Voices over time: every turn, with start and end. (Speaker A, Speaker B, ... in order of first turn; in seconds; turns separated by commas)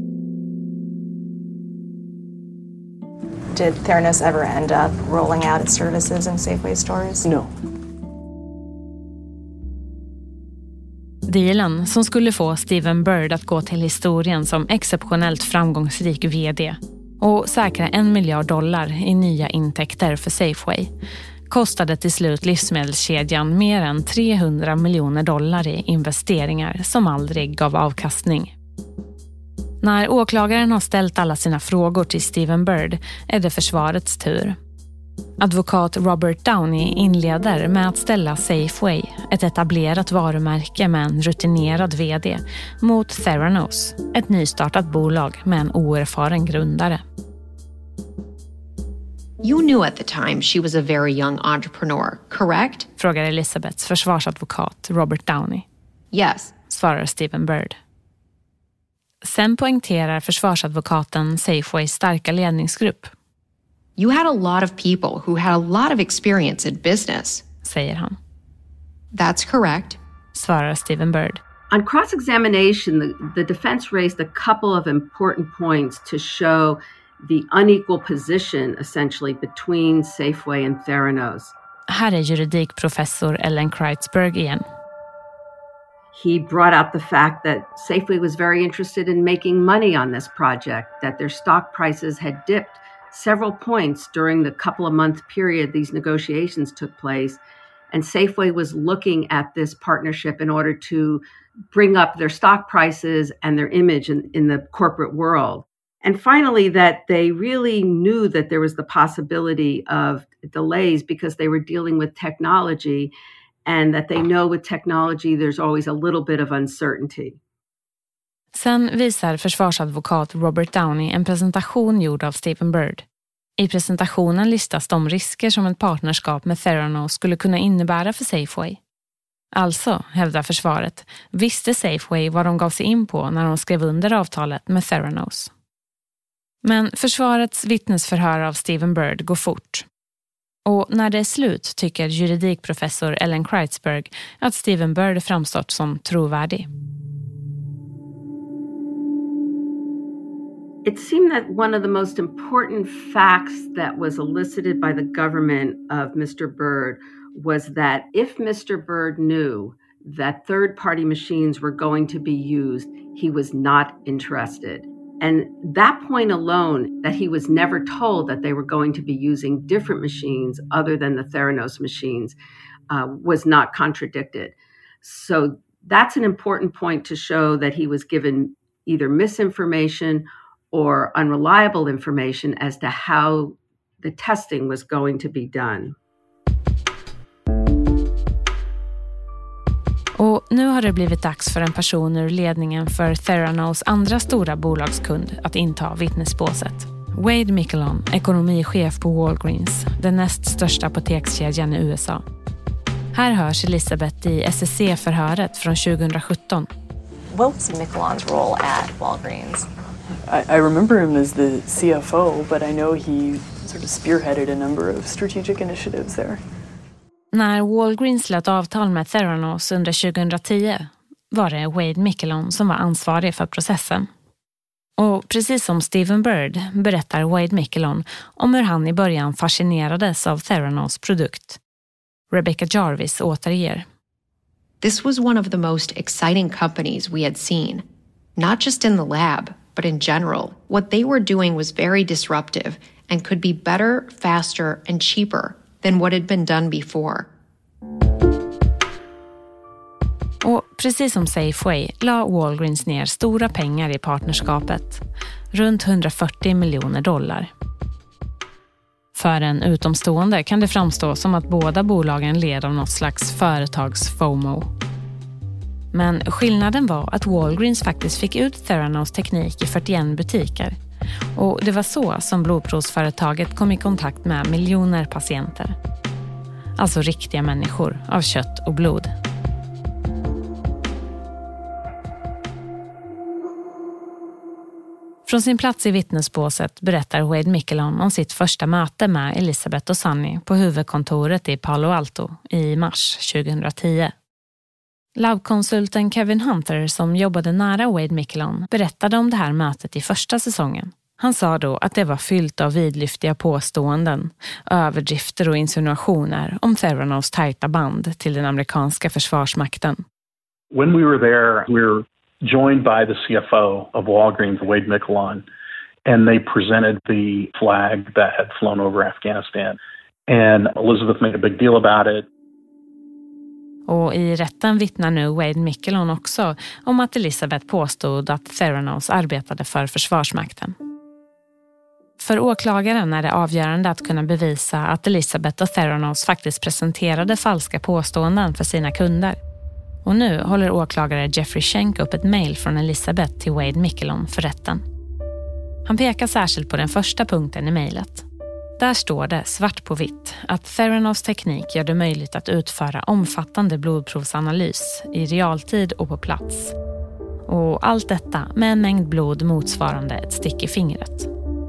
Speaker A: 3.5-7.3, Speaker B: 7.2-7.5, Speaker C: 11.2-20.9, Speaker C: 21.5-28.5, Speaker C: 29.8-34.6, Speaker C: 35.4-47.0, Speaker D: 49.4-52.9, Speaker C: 53.0-55.6, Speaker D: 56.1-56.5, Speaker C: 56.7-57.8, Speaker C: 59.2-63.1, Speaker D: 64.0-67.4, Speaker C: 67.6-68.2, Speaker D: 69.1-70.0, Speaker C: 70.3-71.4, Speaker E: 71.7-81.5, Speaker C: 81.9-84.6, Speaker E: 86.1-97.4, Speaker E: 97.9-113.1, Speaker E: 113.6-117.4, Speaker C: 118.5-123.0, Speaker C: 123.6-128.8, Speaker C: 129.5-135.5, Speaker C: 136.6-139.8, Speaker C: 140.7-146.7, Speaker E: 150.8-172.3, Speaker E: 172.9-185.9, Speaker C: 190.2-202.2, Speaker C: 203.1-206.7, Speaker A: 207.3-209.7, Speaker B: 210.3-216.4, Speaker C: 217.3-224.1, Speaker C: 225.0-231.6, Speaker C: 232.3-233.8, Speaker D: 234.8-237.8, Speaker D: 238.4-247.3, Speaker C: 250.4-255.0, Speaker C: 255.5-257.5, Speaker C: 259.1-264.7, Speaker C: 265.9-270.7, Speaker C: 271.3-275.7, Speaker C: 276.8-279.1, Speaker C: 285.2-294.1, Speaker C: 295.1-310.0, Speaker F: 310.7-315.4, Speaker F: 316.1-322.3, Speaker C: 323.9-330.7, Speaker C: 332.2-339.4, Speaker C: 340.0-344.8, Speaker C: 345.9-348.2, Speaker C: 348.8-356.7, Speaker C: 357.5-361.3